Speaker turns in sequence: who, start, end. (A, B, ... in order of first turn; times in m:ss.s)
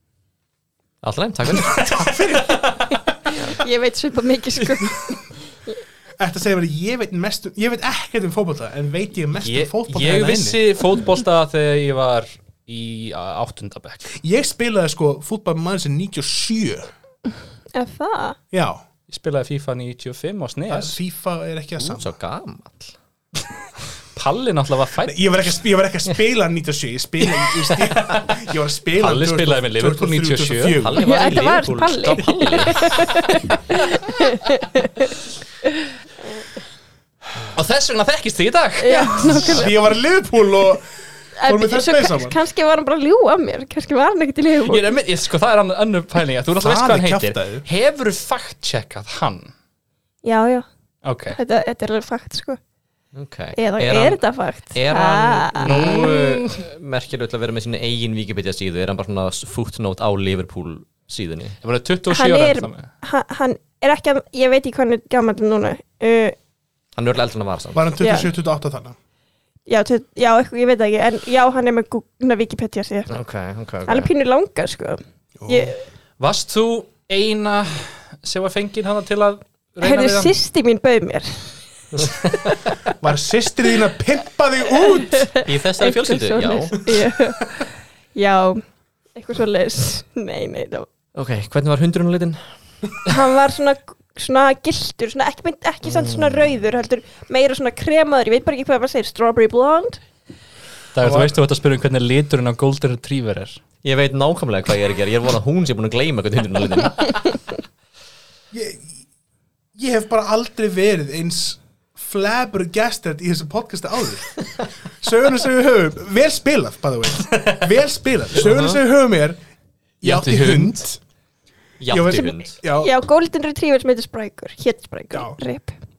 0:01.0-0:01.9 A
0:01.8-0:02.6 B
0:01.8-0:03.0 C
0:03.4-0:05.2 D
0:06.2-0:10.6 B
0:09.4-0:14.1 C
0:14.1-0:16.9 B
0:17.7-0:18.4 D
0:18.5-0:18.8 B
0:19.1-0:21.0 C
0:20.7-0:22.1 B
0:21.8-0:23.0 A
0:24.1-0:25.4 C
0:25.0-0:31.0 B
0:27.8-0:28.2 C
0:29.0-0:30.8 C
0:30.8-0:33.0 A
0:31.0-0:35.1 D
0:37.5-0:39.6 C
0:38.8-0:39.8 D
0:39.0-0:42.4 B
0:41.4-0:44.9 D
0:44.6-0:49.5 C
0:46.6-0:47.6 B
0:50.2-0:50.6 D
0:51.0-0:51.4 C
0:51.3-0:52.6 D
0:53.1-1:01.6 A
0:53.5-0:56.0 D
0:55.6-0:56.3 C
1:01.6-1:02.9 C
1:02.1-1:06.4 D
1:07.0-1:07.8 A
1:07.7-1:09.0 B
1:08.0-1:08.3 D
1:09.7-1:13.1 D
1:13.1-1:14.1 A
1:13.8-1:15.8 D
1:15.4-1:15.7 B
1:16.2-1:20.3 C
1:19.8-1:21.4 D
1:21.9-1:22.6 A
1:23.0-1:25.3 B
1:24.8-1:28.6 D
1:25.4-1:26.8 A
1:29.1-1:30.9 D
1:31.1-1:32.4 A
1:33.1-1:40.0 D
1:36.0-1:36.2 A
1:40.9-1:43.6 C
1:41.0-1:41.3 B
1:43.8-1:47.1 A
1:48.5-1:49.0 B
1:49.7-1:59.4 B
1:58.4-1:58.8 A
2:00.0-2:01.0 B
2:00.0-2:00.9 C
2:01.8-2:02.6 A
2:01.9-2:02.9 B
2:02.8-2:05.8 D
2:05.1-2:05.4 B